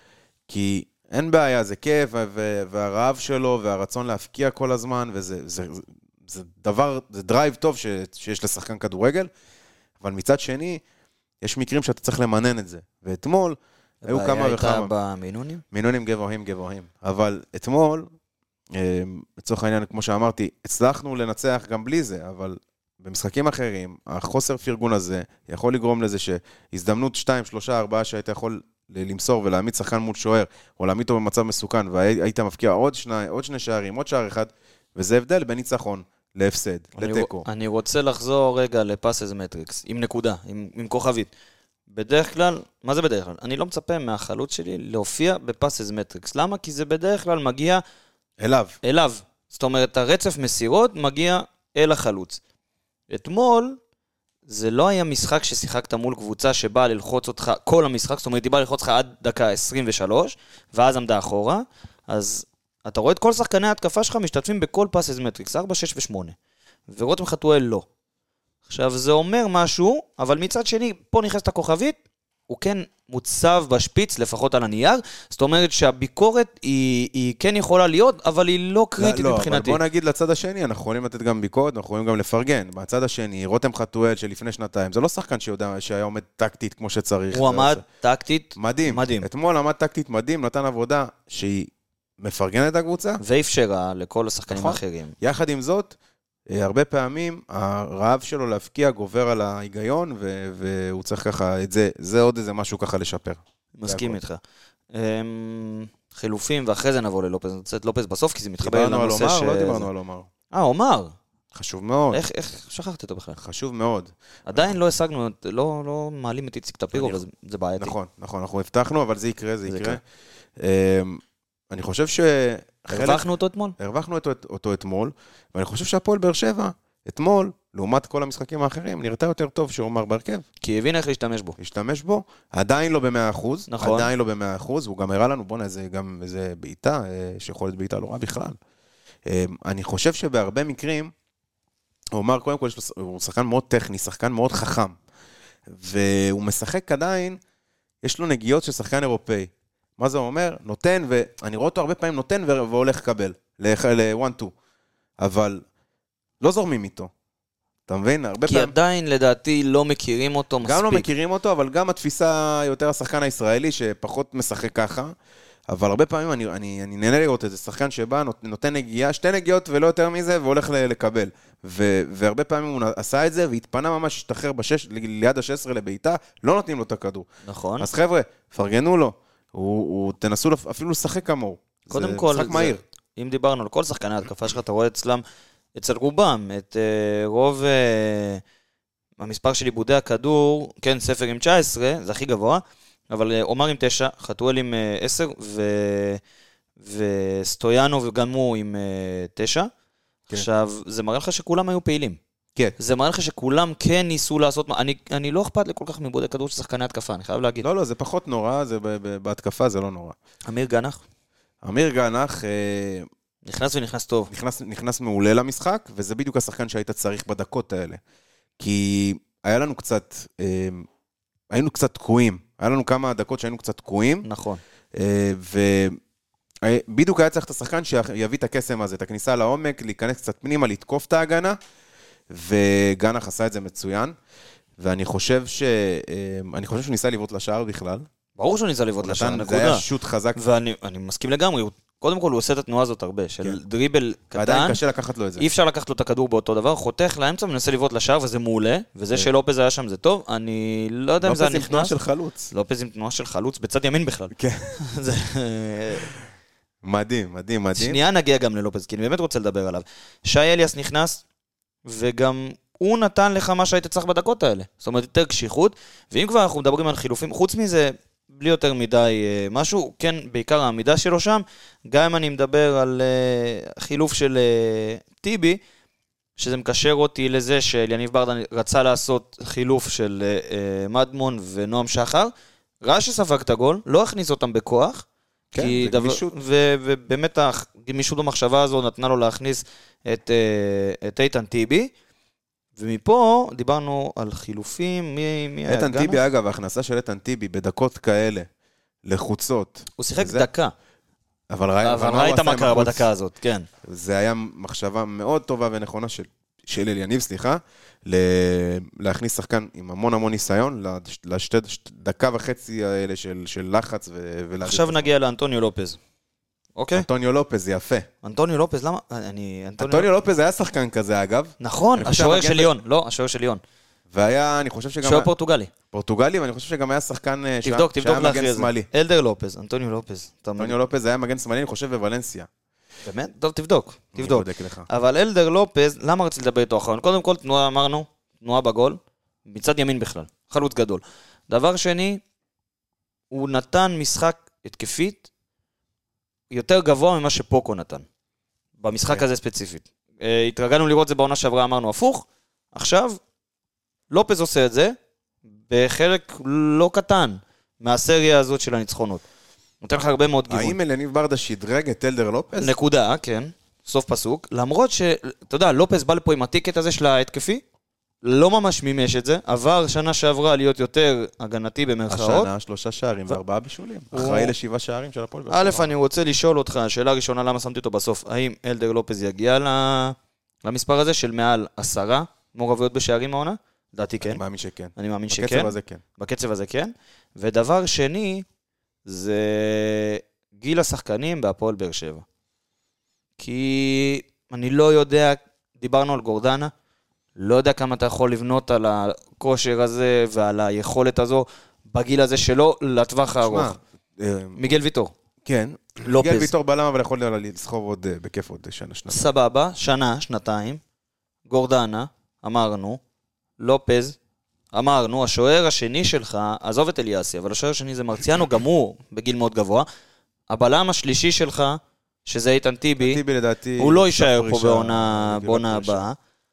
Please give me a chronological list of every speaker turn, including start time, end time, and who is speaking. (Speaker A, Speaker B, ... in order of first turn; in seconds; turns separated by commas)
Speaker A: 0.5-9.3, Speaker A: 10.0-10.8, Speaker A: 11.4-14.9, Speaker B: 14.0-15.6, Speaker A: 15.7-18.1, Speaker A: 18.7-37.5, Speaker B: 37.0-41.3, Speaker B: 41.9-47.8, Speaker A: 48.4-48.8, Speaker B: 48.8-52.4, Speaker B: 53.1-53.8, Speaker B: 54.5-66.3, Speaker B: 66.9-67.9, Speaker B: 68.7-72.0, Speaker B: 72.5-79.8, Speaker A: 79.0-87.8, Speaker B: 87.3-89.3, Speaker A: 88.6-93.2, Speaker B: 93.2-95.2, Speaker A: 94.5-96.0, Speaker A: 96.5-104.2, Speaker B: 103.8-104.4, Speaker B: 104.9-109.9, Speaker A: 108.6-110.3, Speaker B: 110.5-111.2, Speaker A: 111.5-112.2, Speaker B: 112.1-113.4, Speaker A: 113.4-114.8, Speaker B: 114.5-117.9, Speaker A: 116.9-117.2, Speaker A: 117.8-120.0, Speaker B: 119.7-120.0, Speaker A: 120.6-123.2, Speaker B: 122.9-123.8, Speaker A: 123.8-130.4, Speaker B: 130.6-131.6, Speaker A: 131.6-138.6, Speaker B: 133.7-134.1, Speaker A: 139.2-141.1, Speaker A: 142.1-145.0, Speaker A: 145.7-147.4, Speaker A: 148.0-154.5, Speaker A: 155.2-155.6, Speaker A: 156.4-157.1, Speaker A: 157.9-158.8, Speaker B: 158.5-161.1, Speaker A: 160.6-165.1, Speaker A: 165.7-177.3, Speaker B: 177.4-177.9, Speaker A: 177.8-182.8, Speaker B: 181.9-185.2, Speaker B: 185.8-188.4, Speaker B: 189.2-196.2, Speaker B: 196.8-199.7, Speaker B: 200.3-202.2, Speaker B: 202.8-207.7, Speaker A: 207.6-210.2, Speaker B: 210.5-211.0, Speaker A: 211.6-213.1, Speaker B: 213.5-214.3, Speaker A: 214.3-218.0, Speaker A: 218.6-220.9, Speaker A: 221.5-224.3, Speaker B: 224.2-224.6, Speaker A: 224.9-226.0, Speaker A: 226.6-231.6, Speaker A: 232.3-234.2, Speaker A: 234.8-238.1, Speaker B: 238.4-244.8, Speaker A: 239.0-240.4, Speaker A: 244.3-245.5, Speaker B: 245.4-252.0, Speaker A: 251.2-252.5, Speaker B: 252.5-256.1, Speaker A: 254.3-254.8, Speaker A: 256.8-258.0, Speaker B: 257.8-261.2, Speaker B: 261.9-275.6, Speaker B: 276.4-282.3, Speaker B: 282.8-285.1, Speaker A: 285.5-286.3, Speaker B: 285.6-291.9, Speaker B: 292.8-296.2, Speaker A: 295.7-298.5, Speaker A: 299.1-300.5, Speaker B: 300.0-300.7, Speaker A: 301.5-303.1, Speaker B: 301.8-303.7, Speaker A: 303.8-315.1, Speaker B: 314.6-316.0, Speaker B: 316.8-317.1, Speaker A: 316.9-318.1, Speaker B: 318.2-320.1, Speaker A: 319.8-322.7, Speaker B: 321.6-323.6, Speaker A: 324.1-325.3, Speaker B: 325.0-325.7, Speaker A: 325.9-328.9, Speaker B: 327.6-330.8, Speaker A: 330.6-332.5, Speaker B: 333.1-342.2, Speaker A: 334.1-334.9, Speaker B: 343.3-345.3, Speaker B: 346.5-348.1, Speaker B: 348.8-353.2, Speaker B: 354.1-354.9, Speaker B: 355.7-359.2, Speaker B: 359.8-360.8, Speaker A: 360.5-362.8, Speaker B: 362.6-367.6, Speaker B: 368.2-372.5, Speaker A: 372.1-375.9, Speaker B: 374.1-374.5, Speaker B: 375.5-384.4, Speaker A: 384.2-386.0, Speaker B: 385.0-388.4, Speaker B: 389.1-392.2, Speaker B: 393.4-396.7, Speaker B: 397.4-403.8, Speaker A: 403.4-404.6, Speaker B: 404.6-405.1, Speaker A: 405.4-409.2, Speaker B: 406.1-406.5, Speaker B: 409.1-410.8, Speaker B: 411.5-413.0, Speaker B: 413.6-414.2, Speaker B: 414.7-419.9, Speaker B: 420.5-423.2, Speaker A: 423.0-426.1, Speaker B: 423.8-426.2